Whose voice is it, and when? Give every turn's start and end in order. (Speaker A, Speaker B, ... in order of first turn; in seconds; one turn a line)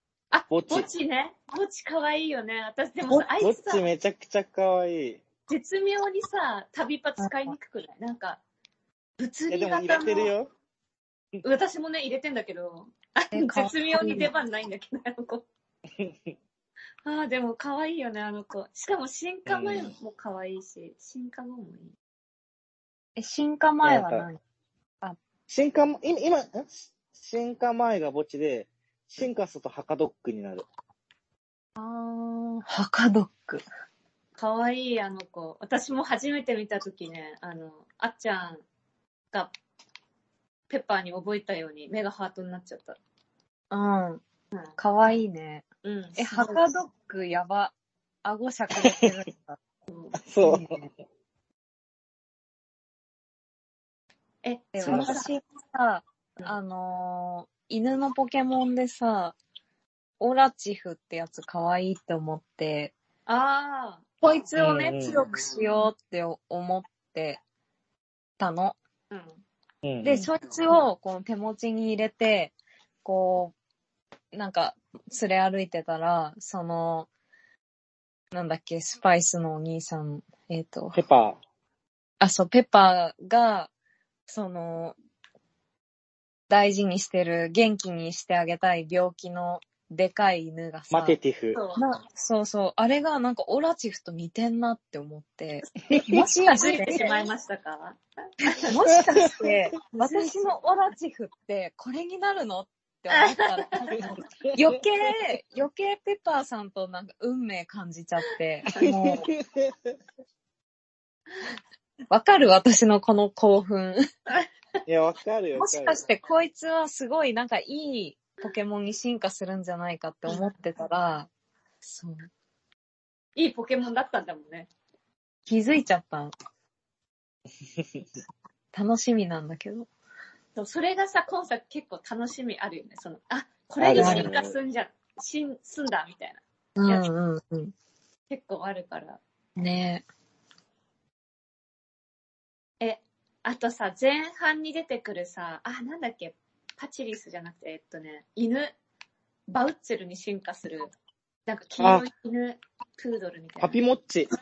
Speaker A: 0.3-3.9
Speaker B: 0.5-0.9
Speaker B: 3.4-5.2
Speaker A: 5.5-8.4
Speaker C: 7.2-7.5
Speaker A: 9.2-10.3
Speaker B: 9.5-10.5
Speaker A: 11.4-15.5
Speaker C: 13.3-14.3
Speaker B: 16.0-16.3
Speaker A: 17.0-21.9
Speaker B: 19.5-19.9
Speaker C: 23.2-24.4
Speaker B: 23.8-24.3
Speaker B: 25.5-30.7
Speaker C: 31.8-33.6
Speaker A: 34.4-38.6
Speaker A: 40.7-43.0
Speaker C: 43.7-44.2
Speaker C: 44.8-45.6
Speaker A: 45.8-46.6
Speaker C: 46.2-47.7
Speaker C: 48.2-49.6
Speaker B: 48.8-49.1
Speaker A: 49.9-50.2
Speaker B: 50.2-50.8
Speaker C: 50.4-50.9
Speaker A: 54.4-55.3
Speaker C: 54.8-59.4
Speaker B: 54.9-55.1
Speaker C: 60.2-62.9
Speaker A: 63.3-64.0
Speaker C: 64.2-67.4
Speaker B: 64.6-65.2
Speaker C: 68.4-68.8
Speaker A: 69.1-69.4
Speaker B: 69.8-70.3
Speaker C: 70.0-72.5
Speaker C: 73.0-73.5
Speaker C: 74.3-77.1
Speaker C: 78.3-81.0
Speaker B: 80.9-81.4
Speaker C: 82.2-83.7
Speaker C: 84.3-85.0
Speaker C: 86.5-91.2
Speaker B: 90.9-91.6
Speaker A: 91.5-91.8
Speaker C: 91.8-97.3
Speaker A: 96.5-98.7
Speaker C: 98.6-109.3
Speaker B: 99.1-99.5
Speaker A: 100.0-100.5
Speaker A: 103.1-104.0
Speaker B: 104.0-104.8
Speaker B: 108.8-110.0
Speaker C: 112.1-114.0
Speaker B: 114.9-116.0
Speaker C: 115.6-121.3
Speaker C: 121.8-122.3
Speaker A: 123.4-124.7
Speaker C: 125.5-126.3
Speaker C: 128.7-129.9
Speaker A: 130.6-137.1
Speaker B: 133.8-134.6
Speaker C: 134.0-134.3
Speaker C: 136.8-137.7
Speaker A: 138.3-139.2
Speaker C: 139.6-140.1
Speaker A: 142.8-148.7
Speaker A: 149.5-150.9
Speaker A: 151.5-153.8
Speaker B: 151.8-152.1
Speaker B: 153.6-154.3